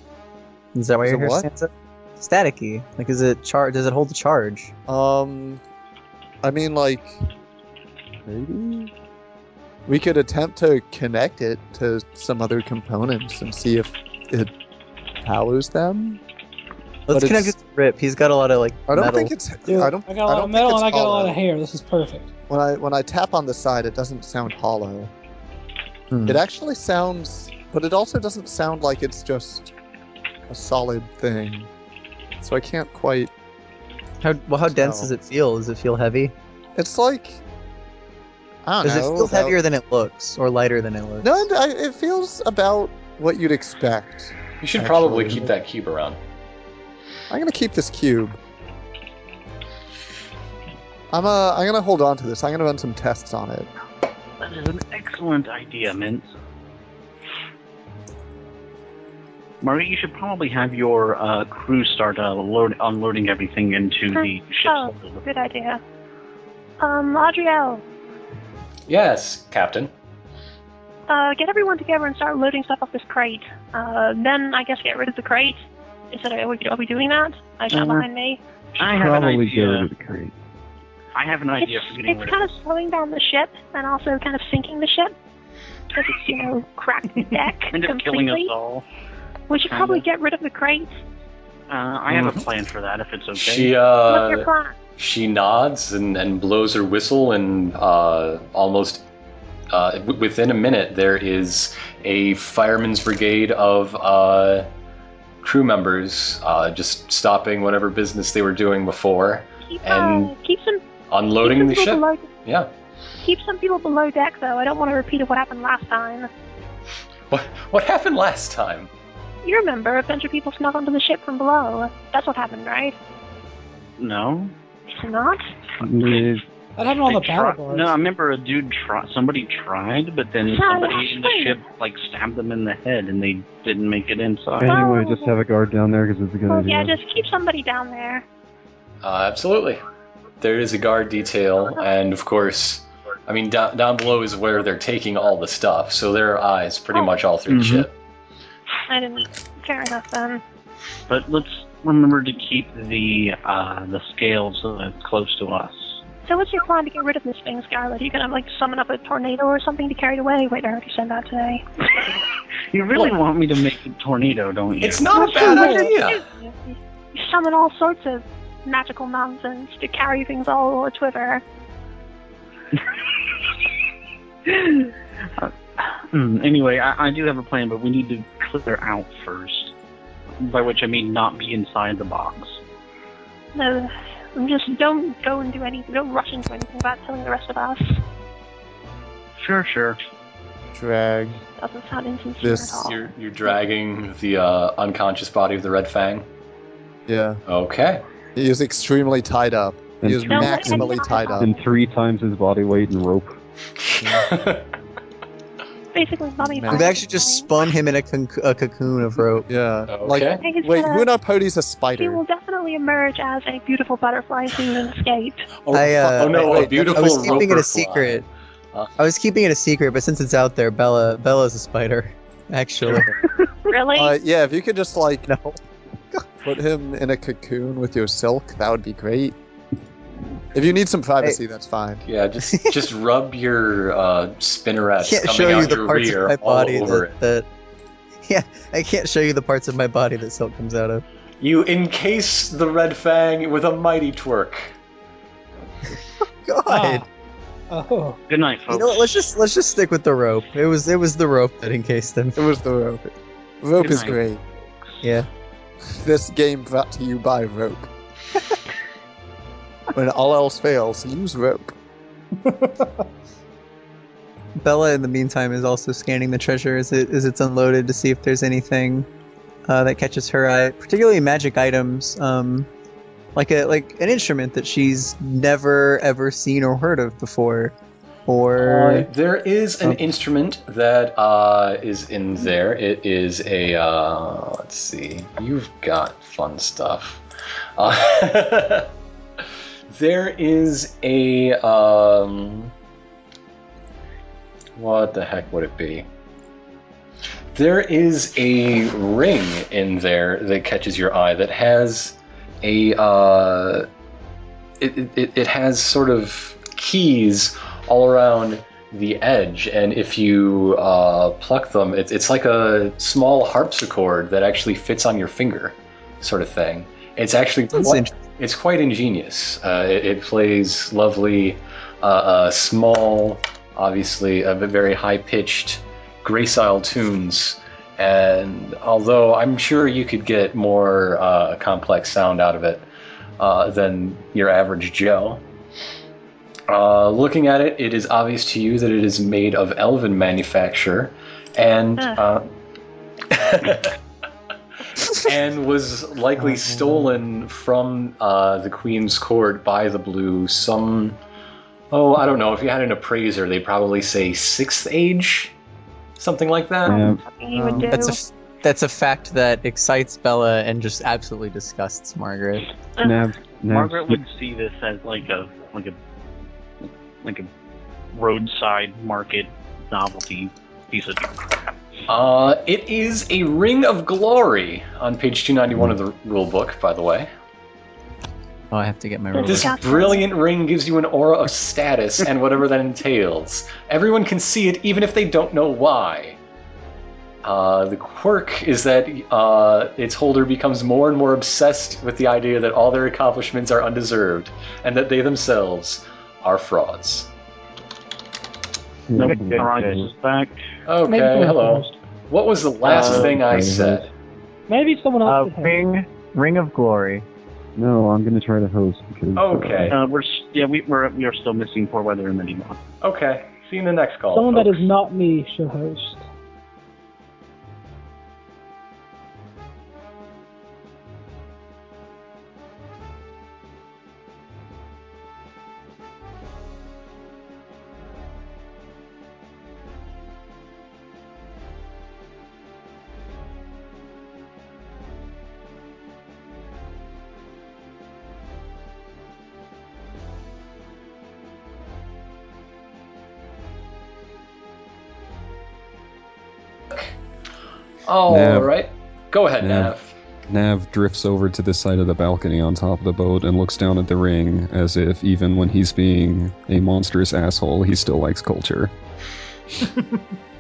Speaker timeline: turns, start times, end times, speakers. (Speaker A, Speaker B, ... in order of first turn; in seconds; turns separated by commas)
Speaker A: 0.8-4.7, Speaker B: 1.1-1.5, Speaker B: 4.9-5.6, Speaker B: 6.4-7.3, Speaker B: 8.3-8.9, Speaker B: 9.9-14.5, Speaker B: 15.2-16.2, Speaker A: 17.1-19.3, Speaker B: 17.1-17.6, Speaker B: 18.9-21.4, Speaker C: 19.7-22.3, Speaker B: 22.5-25.1, Speaker A: 26.1-26.4, Speaker B: 26.2-29.7, Speaker B: 30.5-31.7, Speaker B: 32.4-33.3, Speaker A: 34.2-36.3, Speaker B: 34.8-35.1, Speaker B: 36.8-37.4, Speaker B: 38.6-39.6, Speaker A: 38.8-41.3, Speaker B: 41.2-45.5, Speaker D: 44.6-46.2, Speaker B: 47.3-48.4, Speaker B: 51.1-53.7, Speaker E: 54.4-56.3, Speaker E: 59.6-65.2, Speaker F: 64.1-65.8, Speaker F: 66.8-67.8, Speaker D: 68.9-69.9, Speaker F: 71.1-78.4, Speaker E: 77.7-78.1, Speaker E: 78.8-79.9, Speaker G: 78.8-80.3, Speaker E: 81.1-82.5, Speaker F: 81.6-85.2, Speaker F: 85.9-88.5, Speaker E: 87.7-88.9, Speaker F: 89.5-91.0, Speaker E: 89.5-90.0, Speaker E: 91.7-93.7, Speaker D: 92.1-92.5, Speaker D: 93.3-99.0, Speaker F: 94.1-94.7, Speaker D: 99.7-104.7, Speaker D: 105.4-110.3, Speaker F: 109.7-110.8, Speaker D: 111.1-112.7, Speaker F: 111.4-112.3, Speaker F: 113.2-116.3, Speaker D: 117.3-118.9, Speaker F: 119.4-123.0, Speaker E: 124.0-124.5, Speaker F: 124.9-125.4, Speaker G: 125.8-126.4, Speaker C: 126.8-127.9, Speaker E: 127.1-134.8, Speaker F: 130.4-131.6, Speaker G: 134.6-136.9, Speaker F: 134.7-135.3, Speaker F: 136.5-138.2, Speaker D: 139.0-139.8, Speaker D: 140.4-147.9, Speaker A: 147.5-147.9, Speaker F: 148.9-150.4, Speaker E: 151.1-156.0, Speaker F: 156.2-161.6, Speaker E: 162.7-165.9, Speaker D: 164.8-166.2, Speaker F: 165.1-171.4, Speaker E: 174.5-179.7, Speaker E: 180.4-182.6, Speaker F: 183.6-188.0, Speaker E: 189.4-190.0, Speaker B: 190.7-191.4, Speaker F: 191.6-193.1, Speaker B: 192.4-192.9, Speaker D: 192.8-196.2, Speaker B: 197.1-197.4, Speaker D: 197.5-198.0, Speaker B: 198.4-201.5, Speaker G: 200.0-203.4, Speaker F: 200.2-201.6, Speaker D: 203.9-204.7, Speaker B: 204.0-204.3, Speaker F: 205.9-207.5, Speaker B: 206.4-207.0, Speaker A: 206.7-209.5, Speaker B: 209.5-212.2, Speaker D: 209.9-210.4, Speaker F: 210.4-211.1, Speaker F: 212.0-215.5, Speaker D: 215.6-218.9, Speaker A: 215.7-218.2, Speaker B: 215.9-217.6, Speaker A: 219.0-223.2, Speaker F: 223.7-224.2, Speaker B: 223.9-225.3, Speaker A: 225.3-225.6, Speaker B: 226.4-229.4, Speaker B: 230.5-232.1, Speaker D: 232.1-237.1, Speaker A: 235.0-237.5, Speaker A: 238.2-241.0, Speaker D: 241.4-244.7, Speaker A: 246.4-247.0, Speaker C: 246.7-247.1, Speaker C: 247.7-248.2, Speaker E: 248.3-249.3, Speaker A: 248.7-252.4, Speaker B: 252.4-254.4, Speaker E: 253.8-254.9, Speaker A: 255.0-255.3, Speaker B: 255.9-257.9, Speaker B: 259.9-261.7, Speaker C: 262.5-262.9, Speaker A: 264.6-269.1, Speaker A: 269.7-272.7, Speaker A: 273.4-277.8, Speaker A: 278.3-279.1, Speaker D: 278.6-287.2, Speaker D: 287.8-288.9, Speaker D: 289.9-292.7, Speaker D: 294.8-296.1, Speaker D: 297.6-303.9, Speaker D: 304.8-332.9, Speaker A: 317.7-318.1, Speaker D: 333.4-335.4, Speaker D: 336.7-342.5, Speaker D: 343.3-344.0, Speaker D: 345.1-351.2, Speaker D: 351.9-355.5, Speaker D: 356.2-357.0, Speaker G: 356.9-357.2, Speaker F: 356.9-358.2, Speaker B: 357.6-358.0, Speaker A: 357.8-362.7, Speaker G: 363.0-364.2, Speaker E: 363.6-366.0, Speaker E: 367.2-367.5, Speaker E: 368.1-371.8, Speaker D: 372.1-377.3, Speaker A: 378.7-379.8, Speaker F: 379.3-380.3, Speaker D: 379.4-386.4, Speaker D: 387.4-397.3, Speaker G: 399.1-400.1, Speaker A: 399.1-399.9, Speaker E: 399.2-400.6, Speaker D: 400.9-404.1, Speaker C: 401.1-401.9, Speaker G: 402.9-404.1, Speaker E: 402.9-403.4, Speaker C: 404.7-405.8, Speaker A: 405.2-407.3, Speaker G: 407.8-410.0, Speaker D: 409.4-410.0, Speaker E: 409.9-412.8, Speaker D: 413.0-414.9, Speaker C: 414.3-416.3, Speaker D: 448.1-450.1, Speaker G: 448.3-448.7, Speaker G: 449.6-449.9, Speaker G: 450.5-458.9